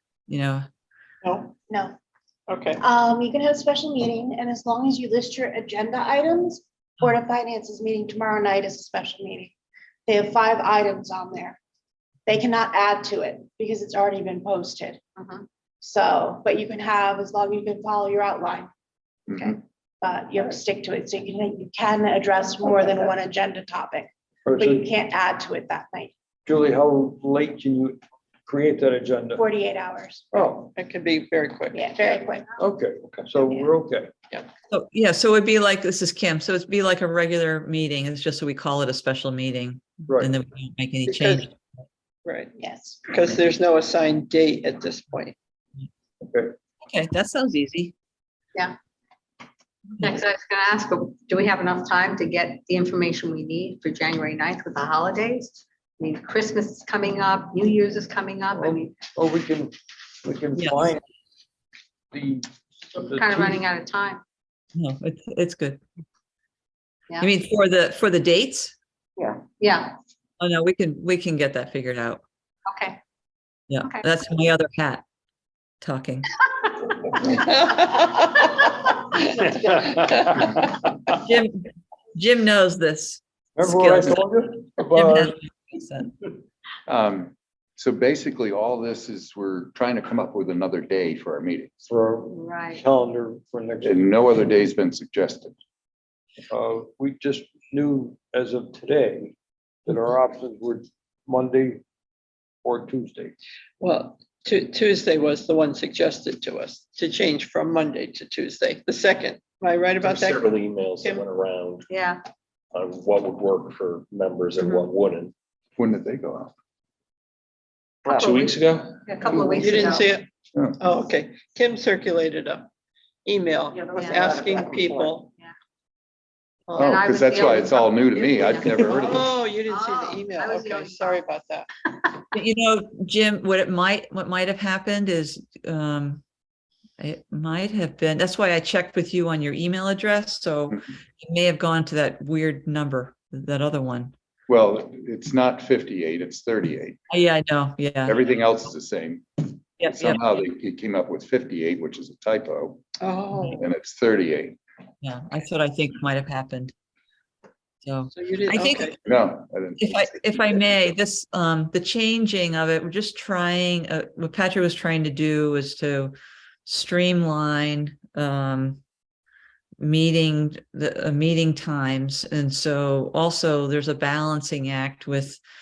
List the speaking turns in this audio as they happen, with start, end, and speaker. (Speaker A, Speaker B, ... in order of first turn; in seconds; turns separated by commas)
Speaker A: 0.3-0.7, Speaker B: 1.2-1.5, Speaker C: 1.7-1.9, Speaker B: 2.5-2.8, Speaker C: 2.8-9.5, Speaker C: 10.1-11.6, Speaker C: 12.2-15.0, Speaker D: 15.2-15.4, Speaker C: 15.8-18.7, Speaker C: 19.3-26.1, Speaker E: 24.4-24.9, Speaker E: 26.4-29.4, Speaker C: 29.4-30.3, Speaker E: 30.3-30.7, Speaker B: 30.7-31.9, Speaker C: 31.7-32.5, Speaker E: 32.6-34.1, Speaker C: 33.4-33.7, Speaker A: 34.7-41.6, Speaker E: 40.1-40.3, Speaker B: 41.1-41.5, Speaker B: 42.2-45.3, Speaker C: 42.6-43.0, Speaker E: 46.2-46.5, Speaker A: 46.9-47.9, Speaker D: 50.0-59.0, Speaker E: 58.5-61.0, Speaker A: 60.5-60.9, Speaker E: 62.1-63.6, Speaker D: 63.0-64.2, Speaker A: 64.7-65.8, Speaker A: 67.2-68.7, Speaker D: 69.5-70.0, Speaker A: 70.4-72.2, Speaker D: 72.7-73.0, Speaker A: 73.7-75.0, Speaker A: 75.8-76.4, Speaker B: 77.3-78.3, Speaker B: 79.1-80.3, Speaker E: 79.6-79.9, Speaker A: 81.1-81.6, Speaker A: 82.1-86.2, Speaker E: 83.6-85.3, Speaker F: 86.9-91.8, Speaker E: 91.8-94.1, Speaker D: 92.3-92.8, Speaker F: 93.8-95.6, Speaker E: 96.5-99.3, Speaker E: 99.9-101.8, Speaker E: 102.6-103.3, Speaker B: 103.8-111.2, Speaker G: 110.0-111.8, Speaker D: 111.9-112.2, Speaker G: 112.7-115.3, Speaker D: 114.6-114.9, Speaker F: 115.8-116.5, Speaker G: 118.0-118.9, Speaker D: 119.1-120.1, Speaker B: 119.5-120.3, Speaker B: 120.8-122.7, Speaker B: 123.2-125.3, Speaker D: 123.9-124.4, Speaker B: 126.7-127.6, Speaker D: 126.8-128.9, Speaker F: 126.8-129.3, Speaker B: 128.1-131.7, Speaker D: 129.6-131.3, Speaker D: 131.9-132.2, Speaker A: 132.3-136.2, Speaker A: 137.0-144.1, Speaker F: 144.5-147.0, Speaker A: 147.1-148.2, Speaker F: 148.1-154.6, Speaker A: 149.8-150.2, Speaker B: 153.0-153.7, Speaker A: 155.0-156.7, Speaker A: 157.8-158.9, Speaker B: 158.1-159.0, Speaker F: 159.0-160.6, Speaker A: 159.8-166.1, Speaker A: 166.7-168.8, Speaker A: 169.8-175.4